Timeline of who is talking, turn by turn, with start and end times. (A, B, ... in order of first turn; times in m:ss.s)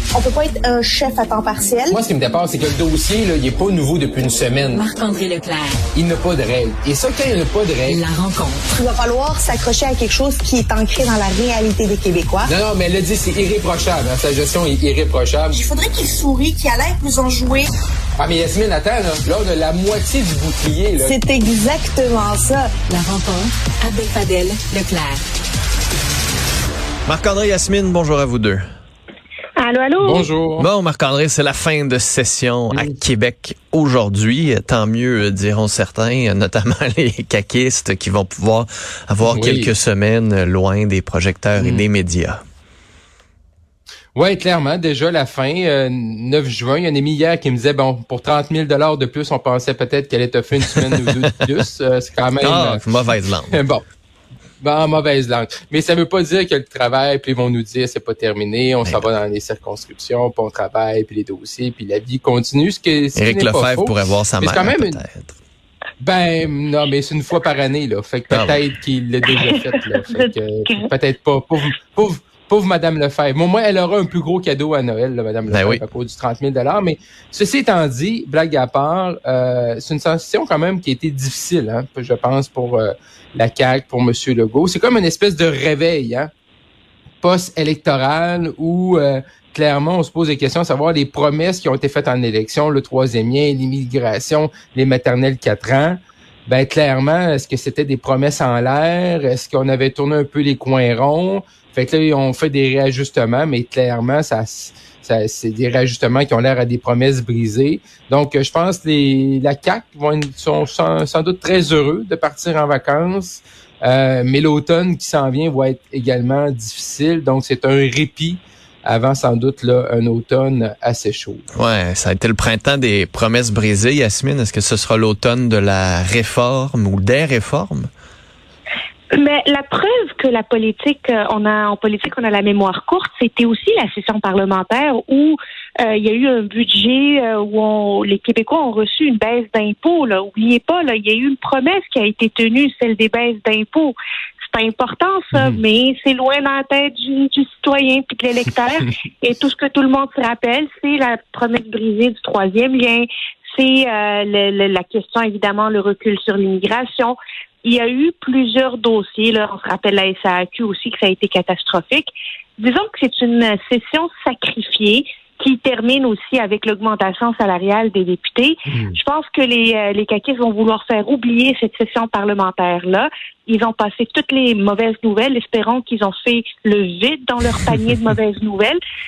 0:00.2-0:02.0 A
0:01.9-0:04.8 B
0:04.7-0:05.8 C
0:05.9-0:08.0 B
0:07.9-0:08.6 C
0:08.8-0:12.5 A
0:12.4-0:15.6 B
0:15.5-0:17.7 A
0:18.2-0:21.2 B
0:21.0-0:22.7 A
0:22.9-0:25.2 C
0:27.1-0:28.6 D
0:29.6-0:30.3 E
0:30.0-0:30.7 B
0:30.6-0:42.4 D
0:32.7-0:33.0 B
0:39.2-0:39.7 B
0:41.6-0:41.9 B
0:44.1-0:52.8 B
0:50.8-0:51.2 D
0:52.4-0:53.6 D
0:53.5-0:53.8 B
0:54.6-1:05.0 B
0:58.8-0:59.1 D
1:03.2-1:05.3 D
1:06.0-1:26.3 B
1:08.3-1:08.6 D
1:10.0-1:10.9 E
1:15.5-1:15.8 D
1:27.2-2:01.4 B
2:01.6-2:07.9 D
2:09.1-2:24.0 E
2:24.5-2:58.8 E
2:25.3-2:25.6 B
2:48.7-2:49.0 B